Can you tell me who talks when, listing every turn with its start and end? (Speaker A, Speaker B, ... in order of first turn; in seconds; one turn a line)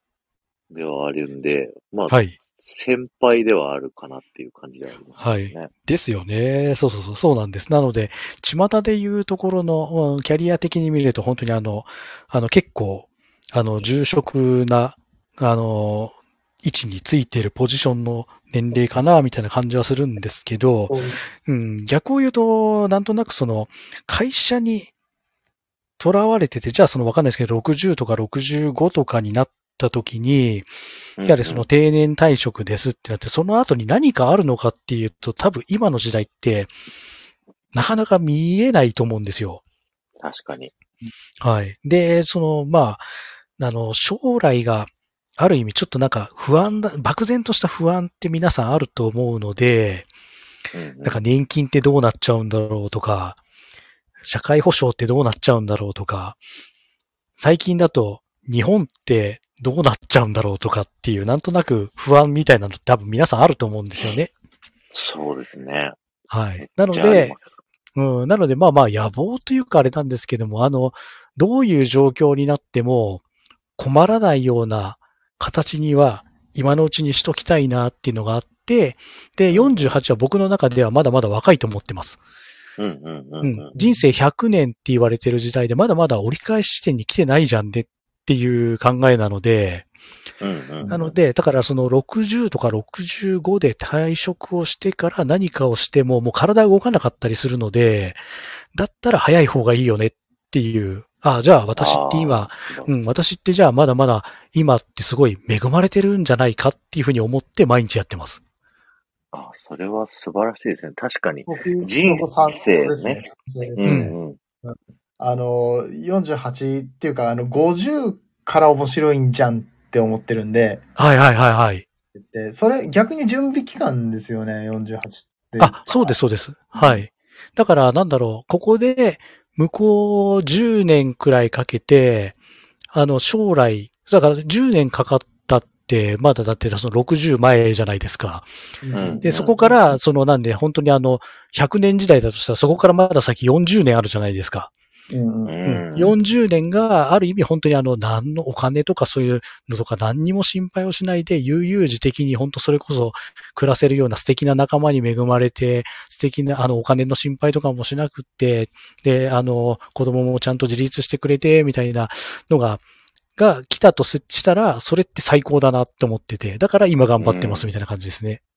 Speaker A: 0.7-5.7
Speaker B: 2.1-2.4
Speaker B: 5.2-24.9
Speaker C: 20.9-21.2
Speaker B: 26.0-30.7
Speaker A: 31.2-31.6
Speaker B: 31.2-36.7
Speaker B: 37.7-39.6
Speaker A: 40.2-40.7
Speaker B: 41.4-50.1
Speaker A: 50.7-51.2
Speaker B: 51.0-53.4
Speaker B: 54.2-56.4
Speaker B: 57.4-64.3
Speaker A: 64.9-66.0
Speaker B: 66.3-67.3
Speaker A: 66.6-67.4
Speaker B: 68.0-73.2
Speaker B: 73.8-82.2
Speaker A: 79.5-79.9
Speaker A: 82.8-83.7
Speaker B: 83.4-89.9
Speaker C: 83.8-84.0
Speaker A: 90.4-91.0
Speaker C: 90.8-91.1
Speaker B: 90.9-108.4
Speaker A: 101.8-102.9
Speaker A: 109.3-114.4
Speaker C: 111.5-114.0
Speaker B: 113.8-114.2
Speaker C: 114.6-120.8
Speaker B: 121.0-121.8
Speaker C: 122.2-126.2
Speaker B: 125.6-132.3
Speaker C: 126.7-127.0
Speaker B: 132.9-138.5
Speaker C: 138.8-139.2
Speaker A: 138.9-139.8
Speaker B: 139.2-144.7
Speaker C: 145.1-145.6
Speaker A: 145.4-146.1
Speaker B: 145.7-162.8
Speaker B: 163.4-168.4
Speaker A: 167.2-167.7